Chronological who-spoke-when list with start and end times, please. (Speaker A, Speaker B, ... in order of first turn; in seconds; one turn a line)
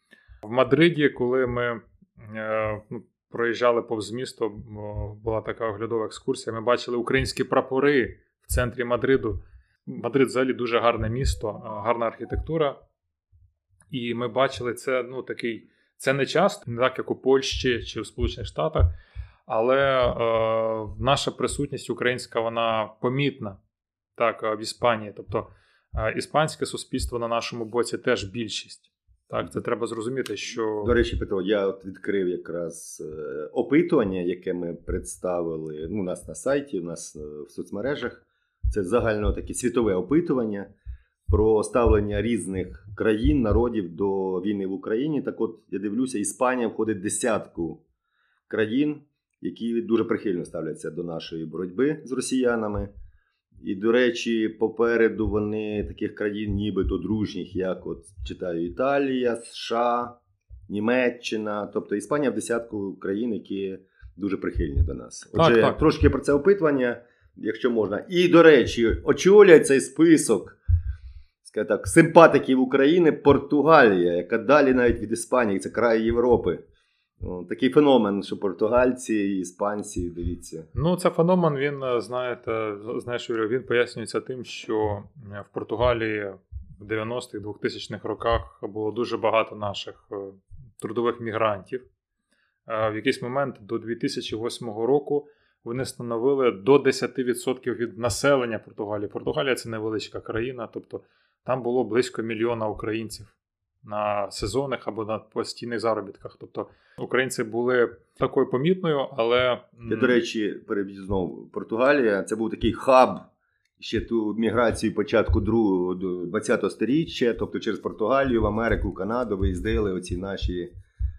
Speaker A: 0.4-12.8
Speaker A: 13.9-18.9
Speaker A: 19.5-23.6
Speaker A: 24.2-30.9
Speaker B: 30.8-40.7
Speaker B: 41.3-47.8
Speaker B: 48.5-52.9
Speaker B: 53.6-60.2
Speaker B: 60.7-70.6
Speaker A: 65.3-65.8
Speaker B: 71.4-76.6
Speaker B: 77.2-80.7
Speaker A: 80.7-91.8
Speaker A: 92.7-110.2
Speaker B: 109.9-113.3
Speaker B: 113.8-120.7